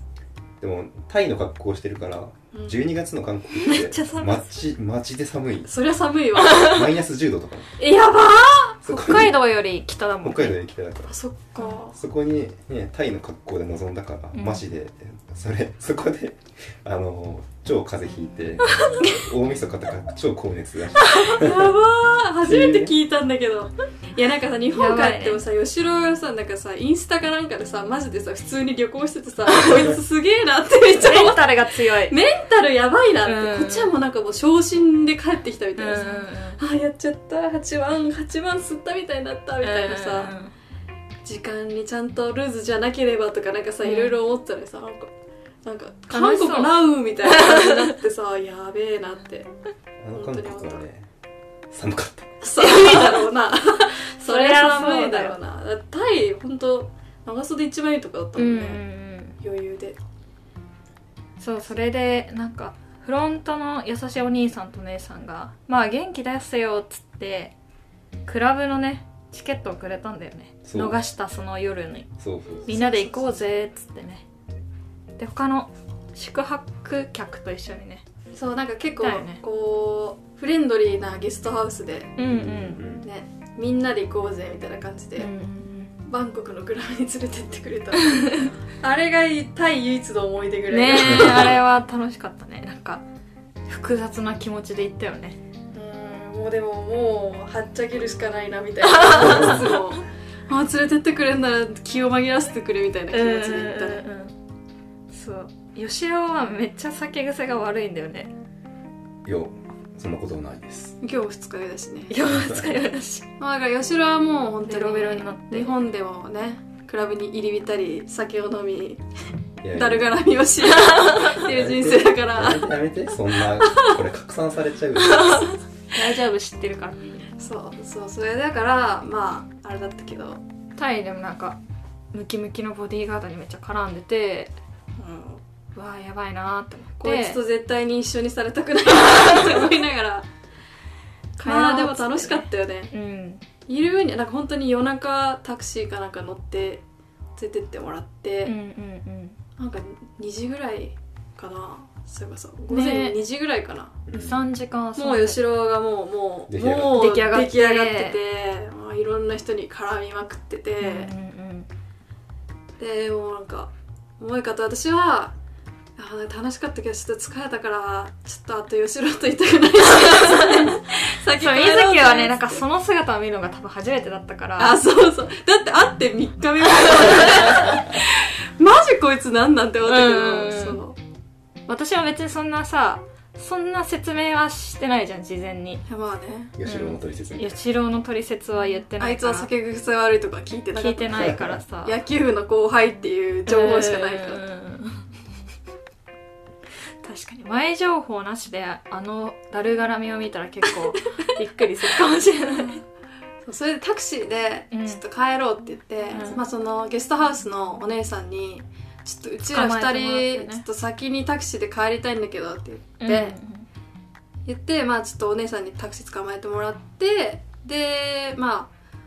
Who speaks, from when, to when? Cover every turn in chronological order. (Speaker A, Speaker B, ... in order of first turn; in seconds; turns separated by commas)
Speaker A: 0.6-5.7, Speaker B: 2.5-2.8, Speaker C: 3.5-4.5, Speaker B: 5.7-6.8, Speaker C: 6.4-6.9, Speaker A: 6.5-7.8, Speaker B: 7.8-8.8, Speaker A: 8.8-9.4, Speaker C: 8.8-10.6, Speaker A: 10.2-11.2, Speaker B: 11.1-12.0, Speaker A: 11.9-21.7, Speaker C: 14.3-14.6, Speaker B: 21.0-40.3, Speaker A: 22.4-22.9, Speaker C: 24.8-25.4, Speaker C: 29.6-29.8, Speaker C: 31.0-32.1, Speaker C: 33.2-34.0, Speaker C: 35.8-36.6, Speaker C: 39.6-40.5, Speaker B: 41.2-45.1, Speaker C: 43.8-44.1, Speaker B: 45.6-49.5, Speaker C: 46.1-47.9, Speaker A: 50.0-51.1, Speaker B: 50.1-50.8, Speaker A: 51.7-52.4, Speaker B: 52.4-58.8, Speaker C: 52.6-53.2, Speaker C: 54.2-55.4, Speaker C: 58.4-59.4, Speaker B: 59.4-60.0, Speaker C: 61.4-67.5, Speaker C: 68.3-72.1, Speaker A: 70.7-71.0, Speaker A: 72.2-72.7, Speaker B: 72.7-73.4, Speaker C: 72.7-74.2, Speaker C: 75.2-78.0, Speaker B: 78.3-82.2, Speaker C: 79.0-79.4, Speaker C: 82.2-82.8, Speaker A: 82.3-83.0, Speaker B: 83.0-85.3, Speaker C: 85.2-85.9, Speaker B: 86.0-91.6, Speaker C: 88.1-88.5, Speaker C: 90.7-93.0, Speaker A: 91.0-91.6, Speaker C: 93.7-95.4, Speaker B: 95.7-104.0, Speaker C: 99.0-99.7, Speaker A: 99.2-99.7, Speaker C: 103.1-104.3, Speaker C: 105.1-108.3, Speaker A: 109.2-111.0, Speaker B: 111.0-112.1, Speaker C: 112.1-113.3, Speaker A: 112.3-112.6, Speaker B: 113.4-119.0, Speaker C: 114.7-115.7, Speaker A: 119.6-120.1, Speaker B: 119.7-122.8, Speaker C: 120.7-121.4, Speaker A: 121.4-125.5, Speaker B: 123.6-124.0, Speaker C: 125.0-127.2, Speaker B: 127.4-130.4, Speaker C: 130.8-131.6, Speaker C: 132.1-134.5, Speaker B: 135.0-135.4, Speaker C: 135.8-137.4, Speaker B: 137.0-140.3, Speaker B: 141.4-142.9, Speaker C: 141.4-143.4, Speaker B: 143.7-146.8, Speaker B: 147.4-148.5, Speaker C: 148.4-149.4, Speaker B: 149.6-154.0, Speaker C: 152.7-153.2, Speaker A: 154.1-154.4, Speaker C: 154.1-155.4, Speaker B: 155.0-161.1, Speaker A: 156.5-157.0, Speaker C: 156.9-158.2, Speaker C: 160.8-161.7, Speaker B: 162.8-165.3, Speaker B: 166.0-172.6, Speaker C: 170.0-170.7, Speaker C: 171.3-174.8, Speaker B: 174.6-181.0, Speaker C: 176.9-177.6, Speaker C: 179.9-180.8, Speaker C: 181.7-185.8, Speaker B: 185.9-186.5, Speaker A: 186.6-187.6, Speaker C: 186.7-189.5, Speaker B: 189.0-194.4, Speaker C: 190.8-192.0, Speaker A: 191.2-191.6, Speaker C: 193.5-195.1, Speaker C: 197.0-202.8, Speaker B: 203.4-213.4, Speaker C: 204.7-205.0, Speaker C: 206.1-206.4, Speaker C: 209.5-210.7, Speaker C: 213.0-213.7, Speaker B: 214.5-218.7